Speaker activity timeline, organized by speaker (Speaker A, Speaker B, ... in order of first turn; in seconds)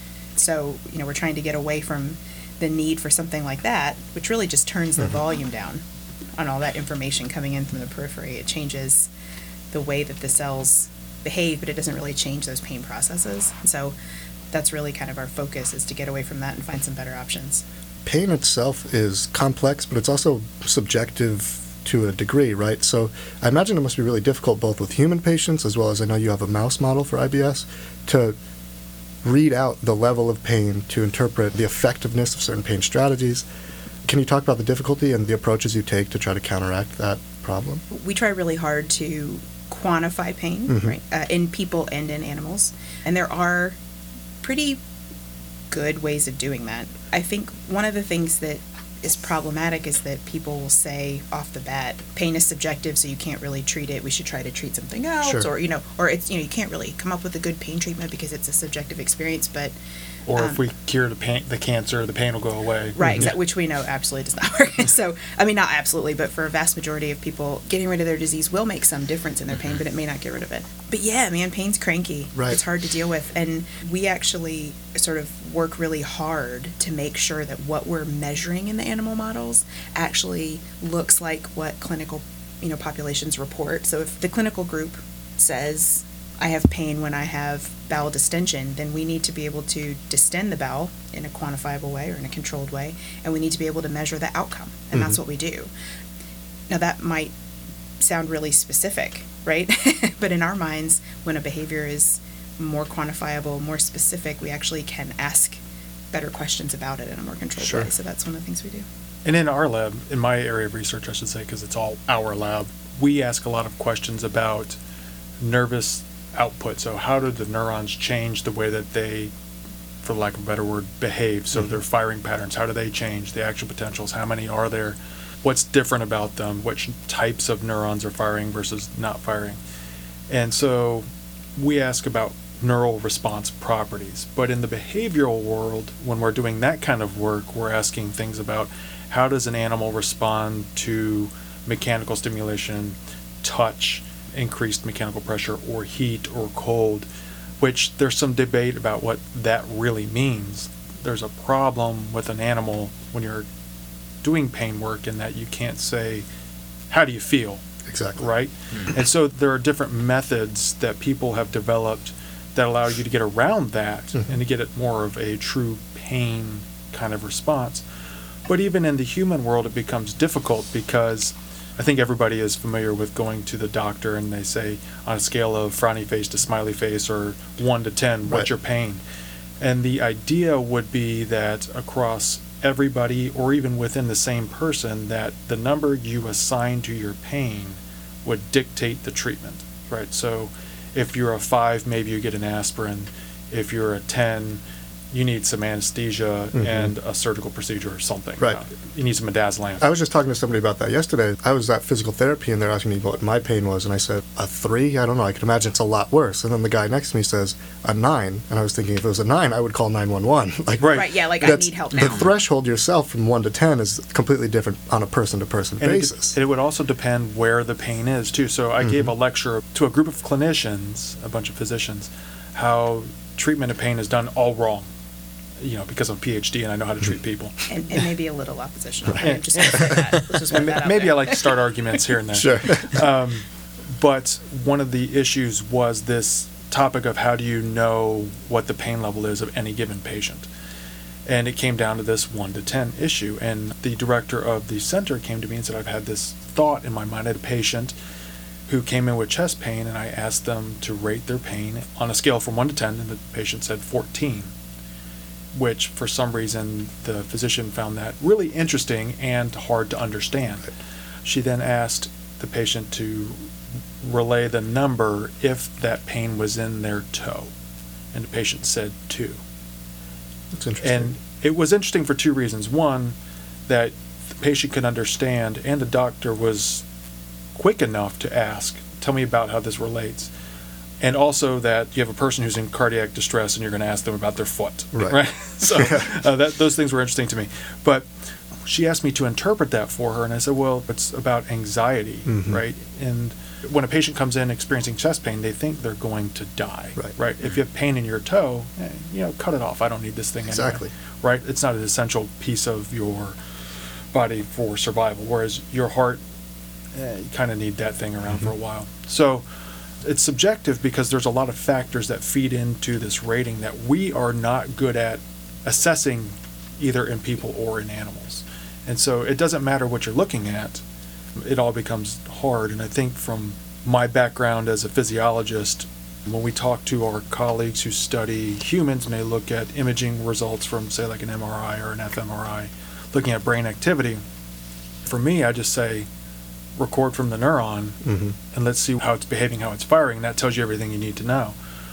Speaker A: 0.4-5.8, 6.4-9.1, 9.7-13.9, 14.5-17.6, 37.9-43.8, 44.4-44.8, 45.7-59.7, 60.4-60.6, 63.0-95.7, 96.7-97.3, 98.0-105.6, 106.1-108.8, 210.9-212.3, 227.7-231.5
Speaker B: 18.1-28.4, 29.2-33.5, 34.0-37.8, 40.7-41.0, 107.6-107.9, 157.9-158.2, 196.6-196.9, 199.8-216.3, 232.3-233.0, 270.5-271.1, 292.3-292.6, 300.5-300.9, 338.1-338.3
Speaker C: 60.3-63.1, 109.2-114.8, 115.4-119.3, 120.0-129.6, 130.3-131.1, 131.6-147.1, 147.6-153.4, 154.2-156.2, 156.9-157.6, 158.2-167.8, 168.5-179.0, 179.6-194.6, 195.1-199.8, 210.8-211.1, 215.8-224.9, 225.6-228.0, 229.2-240.5, 241.3-247.9, 248.7-254.5, 255.5-260.7, 261.2-263.5, 264.0-267.5, 268.1-269.4, 270.8-273.1, 273.7-276.8, 277.6-280.3, 281.0-288.1, 288.6-303.4, 304.1-306.2, 306.9-309.4, 310.0-320.8, 321.4-334.2, 335.1-336.1, 336.8-341.6